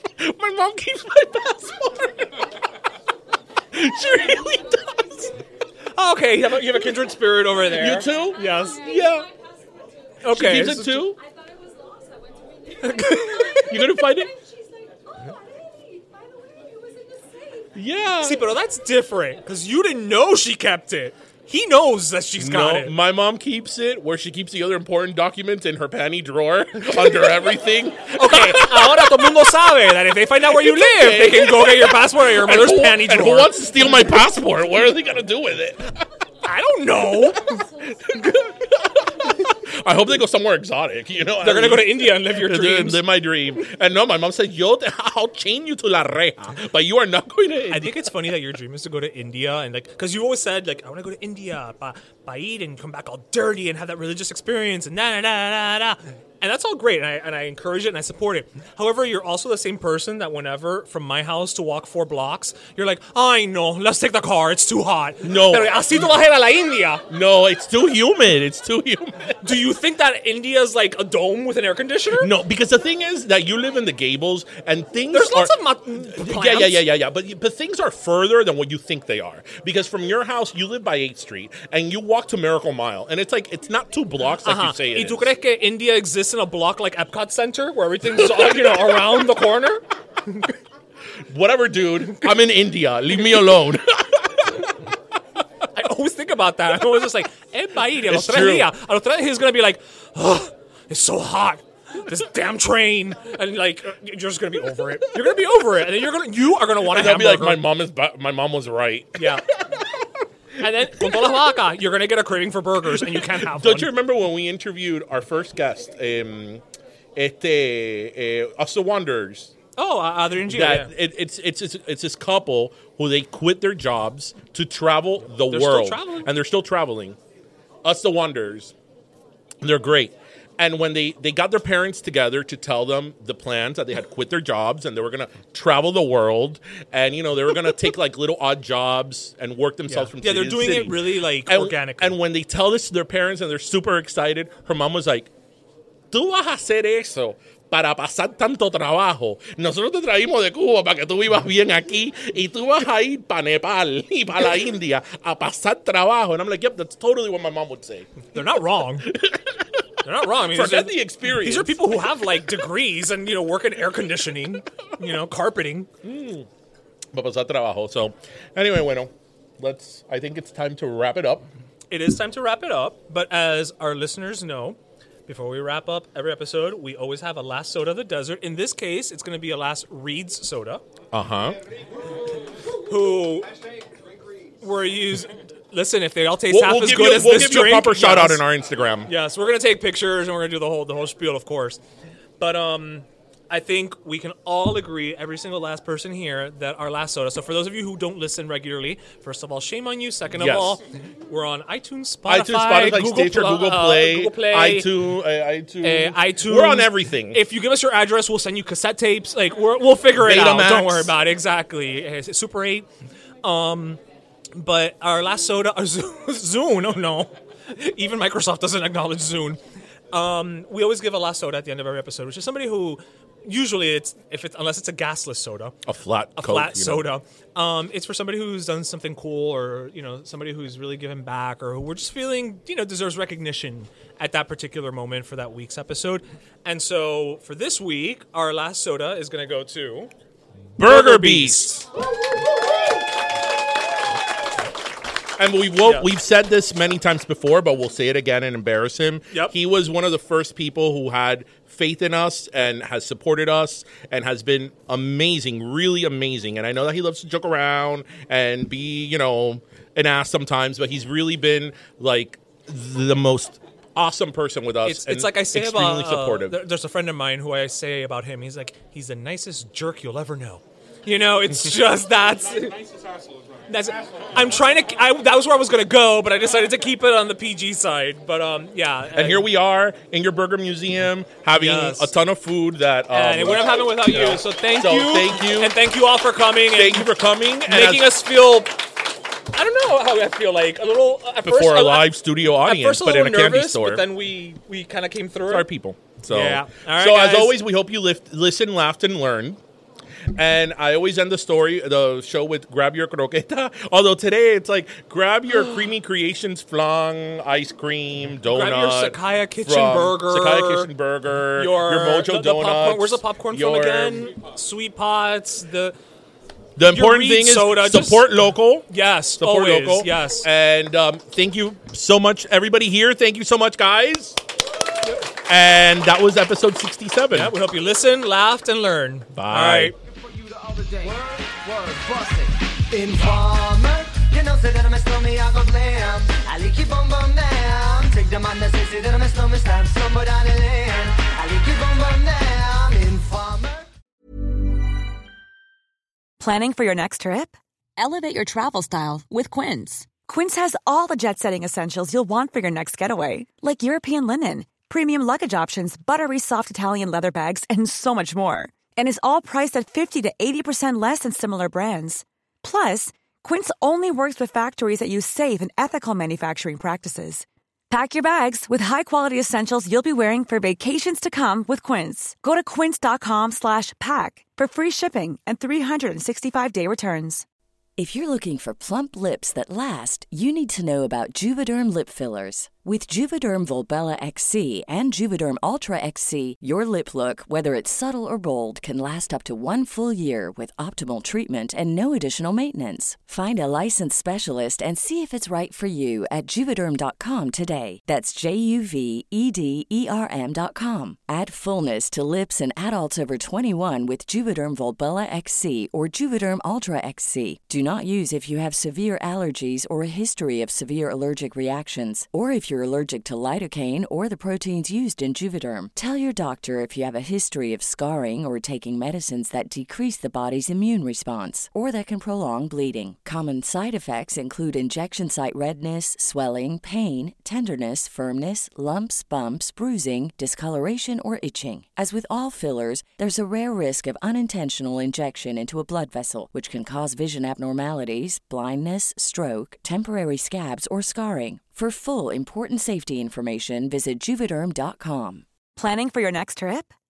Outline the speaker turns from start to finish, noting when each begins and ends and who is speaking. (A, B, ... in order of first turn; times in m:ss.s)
0:00.2-0:02.6 A
0:03.7-0:05.3 A
0:06.0-0:08.9 B
0:07.7-0:09.3 A
0:10.2-0:11.1 B
0:10.2-0:11.2 A
0:12.8-0:13.9 B
0:13.5-0:14.3 A
0:17.8-0:18.5 A
0:18.2-0:23.0 B
0:22.4-0:29.6 A
0:28.2-0:33.7 B
0:30.4-0:36.0 A
0:36.4-0:38.5 B
0:38.1-0:48.1 A
0:41.4-0:43.0 B
0:47.7-1:07.0 B
1:05.2-1:06.2 A
1:07.1-1:09.4 A
1:09.4-1:12.3 B
1:12.2-1:25.3 A
1:15.1-1:16.9 B
1:24.4-1:30.5 B
1:28.4-1:28.7 A
1:31.3-1:34.6 A
1:35.8-1:47.7 B
1:38.0-1:38.7 A
1:46.8-1:49.4 A
1:49.2-1:49.5 B
1:50.6-1:53.9 B
1:52.9-1:56.6 A
1:57.2-1:59.6 A
1:59.8-2:00.9 B
2:00.5-2:07.2 A
2:05.5-2:06.3 B
2:07.8-2:08.7 A
2:09.6-2:25.3 A
2:19.9-2:22.2 B
2:26.1-2:38.3 A
2:38.3-2:39.1 B
2:39.0-2:39.6 A
2:40.0-2:45.9 B
2:40.4-2:42.0 A
2:46.0-2:46.5 A
2:47.1-2:51.5 A
2:51.9-3:00.8 B
3:01.1-3:01.6 A
3:02.9-3:03.5 B
3:04.6-3:08.4 B
3:06.5-3:09.1 A
3:09.1-3:11.8 B
3:12.4-3:24.9 B
3:20.3-3:20.8 A
3:22.3-3:27.4 A
3:25.8-3:32.9 B
3:30.2-3:31.1 A
3:33.4-3:34.0 B
3:34.6-3:39.6 B
3:40.1-3:45.8 B
3:45.8-3:47.1 A
3:46.4-4:00.1 B
4:00.8-4:01.7 A
4:00.8-4:01.9 B
4:05.4-4:26.6 A
4:24.8-4:32.9 B
4:33.7-4:39.5 B
4:39.1-4:45.8 A
4:41.6-4:42.1 B
4:43.1-4:47.1 B
4:46.7-4:48.2 A
4:47.7-4:48.8 B
4:49.5-4:55.7 B
4:51.4-4:54.1 A
4:55.5-4:59.6 A
4:56.3-4:57.6 B
5:00.3-5:14.4 A
5:05.5-5:05.8 B
5:08.5-5:10.9 B
5:11.5-5:16.0 B
5:16.8-5:24.4 A
5:16.9-5:18.3 B
5:18.9-5:20.5 B
5:25.4-5:27.6 A
5:27.3-5:30.0 B
5:29.3-5:29.9 A
5:30.0-5:43.9 C
5:46.4-5:47.5 D
5:49.3-5:49.6 D
5:50.2-6:17.4 D
6:18.0-7:25.4 E
7:25.8-7:26.9 D